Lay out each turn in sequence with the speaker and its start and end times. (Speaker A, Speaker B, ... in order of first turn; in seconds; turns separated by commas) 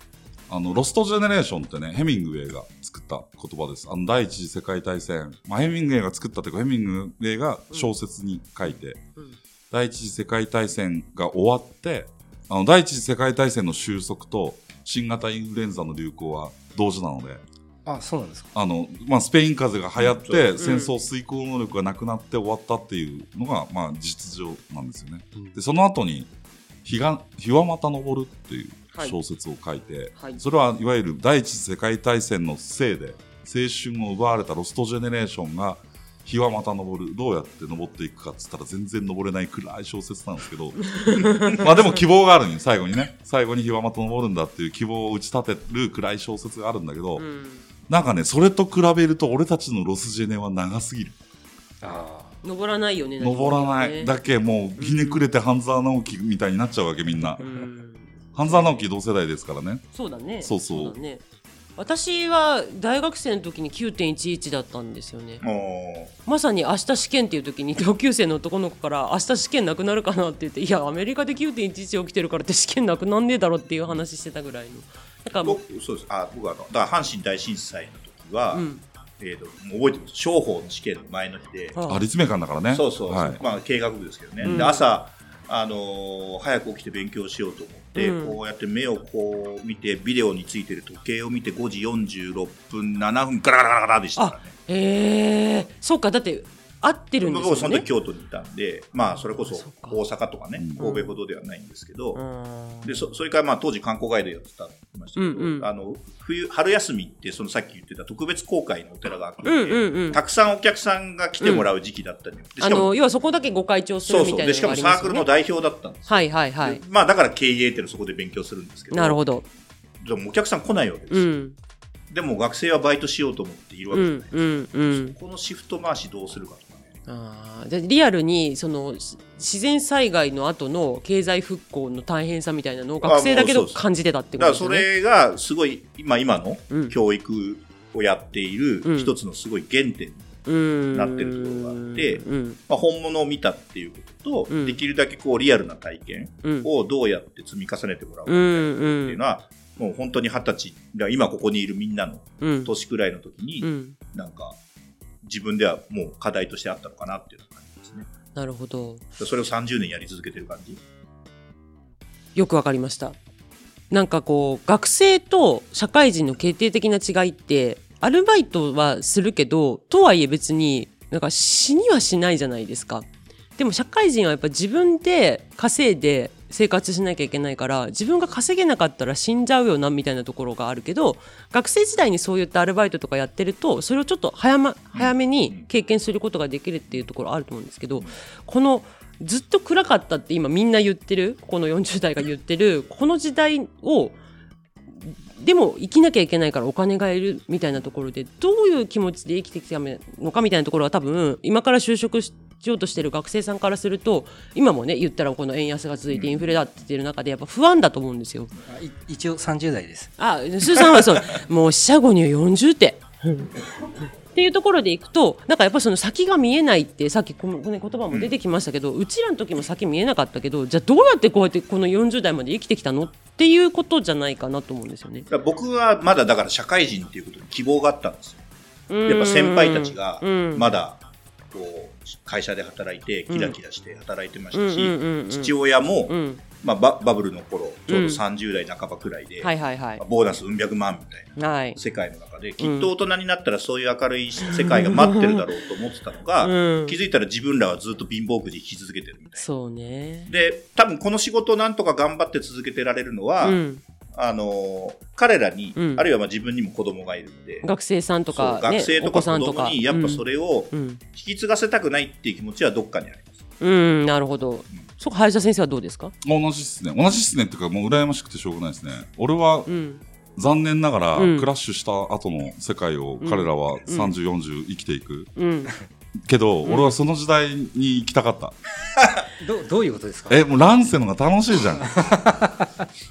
Speaker A: 0.5-9.0, Speaker A: 9.7-17.4, Speaker B: 17.9-18.5, Speaker A: 18.5-26.3, Speaker C: 20.0-20.6, Speaker D: 20.6-20.9, Speaker A: 26.9-47.3, Speaker D: 40.8-41.7, Speaker D: 47.2-47.6, Speaker A: 47.9-51.2, Speaker B: 51.8-52.4, Speaker D: 52.4-54.1, Speaker A: 53.2-57.4, Speaker D: 54.8-55.2, Speaker D: 57.4-58.9, Speaker A: 58.3-61.0, Speaker D: 59.9-61.2, Speaker D: 61.8-65.4, Speaker C: 65.4-66.1, Speaker D: 66.3-75.6, Speaker C: 75.4-78.7, Speaker D: 78.5-78.8, Speaker C: 79.2-81.8, Speaker D: 81.7-82.0, Speaker A: 81.9-83.4, Speaker C: 82.7-94.5, Speaker D: 84.4-84.8, Speaker D: 88.0-88.4, Speaker D: 94.2-97.9, Speaker C: 97.2-102.2, Speaker D: 99.2-100.0, Speaker D: 100.8-101.2, Speaker D: 102.2-103.1, Speaker C: 102.8-112.9, Speaker D: 105.2-105.7, Speaker D: 109.4-110.2, Speaker D: 111.4-111.7, Speaker D: 112.6-115.3, Speaker C: 114.1-119.3, Speaker D: 116.1-116.8, Speaker D: 118.9-119.5, Speaker C: 120.0-121.3, Speaker D: 121.1-121.5, Speaker C: 122.1-126.9, Speaker D: 123.9-125.2, Speaker D: 127.1-134.9, Speaker C: 133.0-133.8, Speaker C: 134.4-140.3, Speaker D: 138.8-139.1, Speaker D: 140.5-142.6, Speaker C: 140.9-154.6, Speaker D: 144.5-144.8, Speaker D: 146.4-146.7, Speaker D: 148.3-149.2, Speaker D: 152.4-152.7, Speaker D: 153.6-153.9, Speaker C: 155.2-158.1, Speaker D: 158.3-159.1, Speaker C: 159.2-160.8, Speaker D: 162.3-163.2, Speaker D: 163.9-194.2, Speaker C: 184.9-185.7, Speaker D: 195.0-208.5, Speaker C: 206.1-206.6, Speaker B: 208.7-210.1, Speaker D: 210.2-213.5, Speaker D: 214.3-225.3, Speaker C: 225.3-228.4, Speaker D: 228.9-230.7, Speaker C: 229.1-249.5, Speaker D: 233.3-233.6, Speaker D: 234.5-235.5, Speaker D: 236.1-236.4, Speaker D: 237.9-238.2, Speaker D: 239.4-240.0, Speaker D: 241.4-241.8, Speaker D: 242.6-242.9, Speaker D: 244.5-245.4, Speaker D: 246.4-247.0, Speaker D: 249.4-250.3, Speaker C: 250.3-253.6, Speaker D: 253.4-253.8, Speaker C: 254.1-257.7, Speaker D: 255.8-256.1, Speaker D: 257.6-261.0, Speaker C: 258.3-263.4, Speaker D: 263.6-266.1, Speaker A: 266.2-269.7, Speaker D: 269.7-270.0, Speaker A: 270.4-275.3, Speaker D: 271.2-271.5, Speaker D: 273.2-274.1, Speaker D: 275.4-275.8, Speaker A: 276.2-278.6, Speaker D: 276.6-277.0, Speaker B: 279.4-280.4, Speaker A: 280.3-282.1, Speaker B: 281.8-282.7